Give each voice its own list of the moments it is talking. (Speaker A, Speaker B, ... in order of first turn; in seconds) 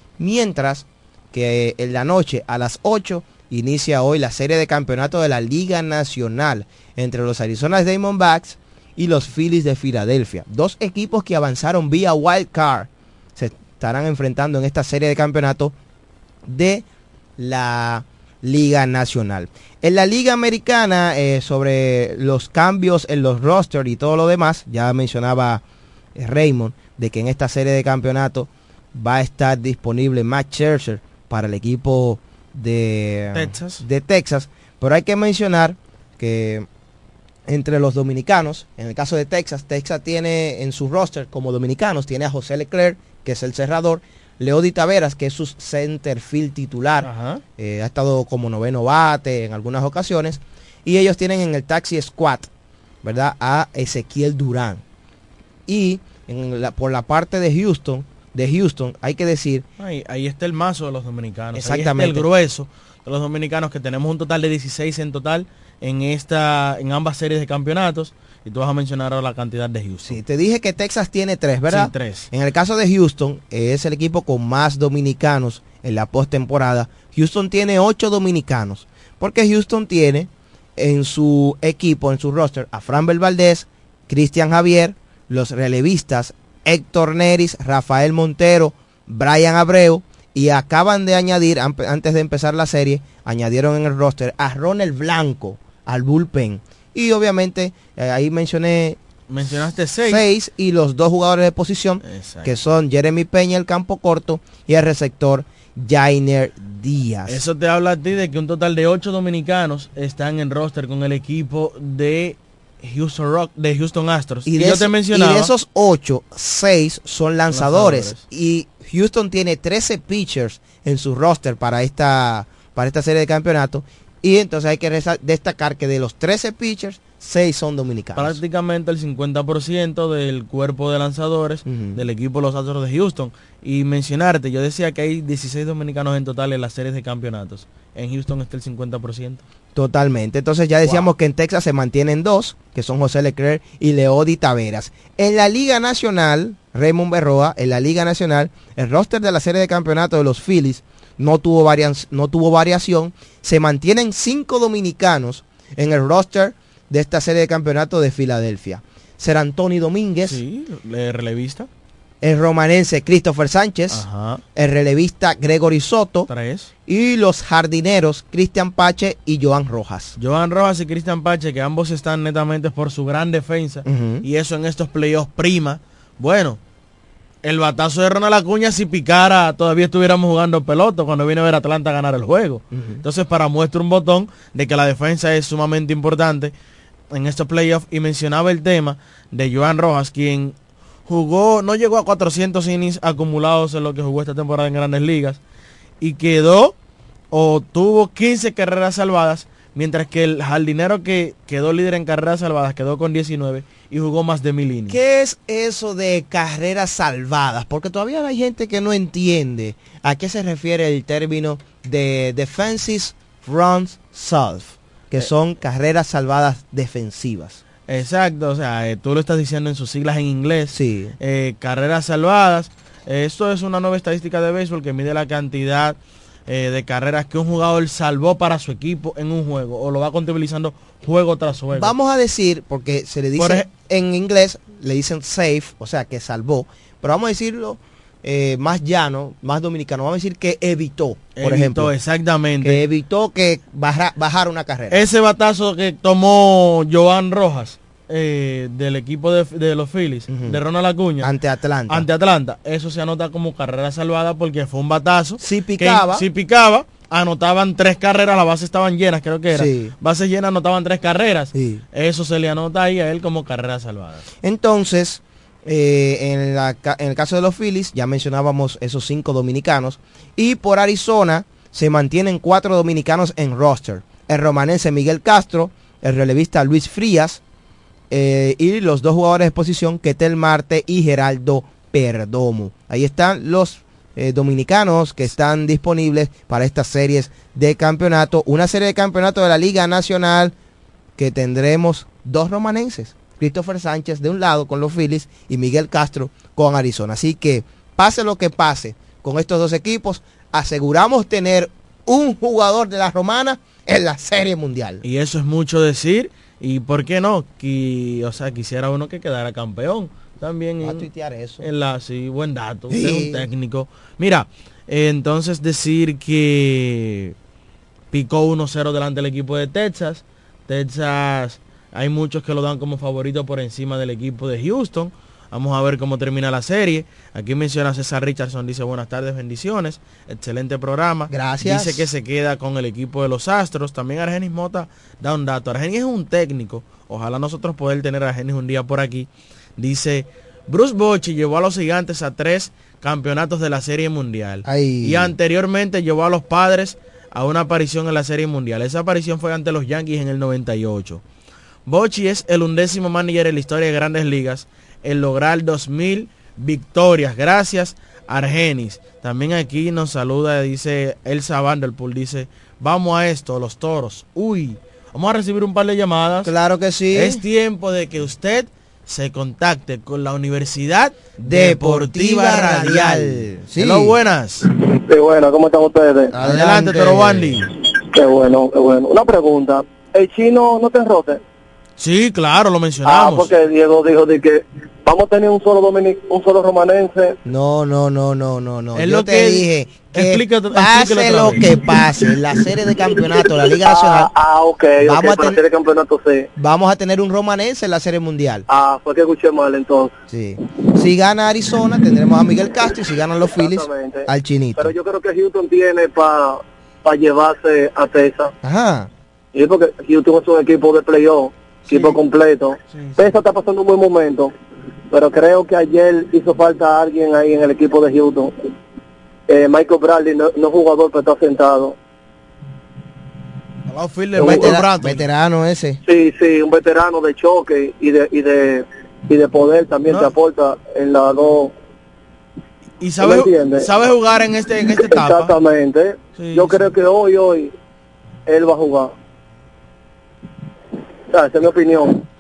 Speaker A: 0.2-15.7, 16.5-16.9, 17.4-25.6, 26.1-36.7, 37.5-52.5, 53.0-54.8, 55.7-59.6, 61.5-62.2, 70.1-99.0, 100.0-107.4, 114.5-128.4, 131.7-132.0, 139.8-160.4, 162.2-164.1, 164.6-166.3, 166.9-170.2, 173.8-174.2, 182.7-183.0, 204.9-217.6, 220.7-221.2, 231.7-241.9, 242.6-245.0, 250.3-250.6, 251.2-252.1, 255.4-256.2, 259.5-259.9, 261.5-261.8, 264.4-277.4, 278.1-290.5, 291.2-305.0, 310.8-311.7, 312.9-313.5, 331.3-332.1, 344.6-345.3, 366.4-367.4, 371.4-374.1, 376.3-377.7, 387.5-394.3, 395.0-395.6, 396.6-398.6, 400.3-404.9, 408.6-409.1, 411.9-412.1, 424.4-426.0
Speaker B: 33.3-33.8, 47.0-47.4, 59.8-70.2, 71.7-72.3, 99.3-100.2, 102.1-102.6, 107.3-115.5, 117.5-118.2, 128.2-139.4, 160.2-161.7, 163.9-164.4, 166.3-166.7, 170.2-176.6, 177.4-186.5, 187.1-190.5, 191.1-195.4, 196.0-196.8, 197.3-205.0, 217.9-231.9, 233.4-233.7, 241.4-242.8, 244.9-251.3, 251.9-264.3, 305.0-311.1, 311.6-317.3, 318.1-351.2, 351.9-366.5, 367.1-374.7, 376.4-377.6, 382.0-383.6, 389.0-391.7, 412.9-413.4, 423.9-425.2, 430.1-430.3, 433.0-435.6, 436.4-436.9
Speaker C: 375.1-376.4, 378.1-381.4, 383.0-387.4, 393.4-396.5, 398.7-400.1, 403.5-408.5, 409.6-414.5, 415.1-418.5, 419.5-421.9, 426.1-431.7, 433.2-433.9, 435.0-437.7, 438.5-439.1, 441.3-442.2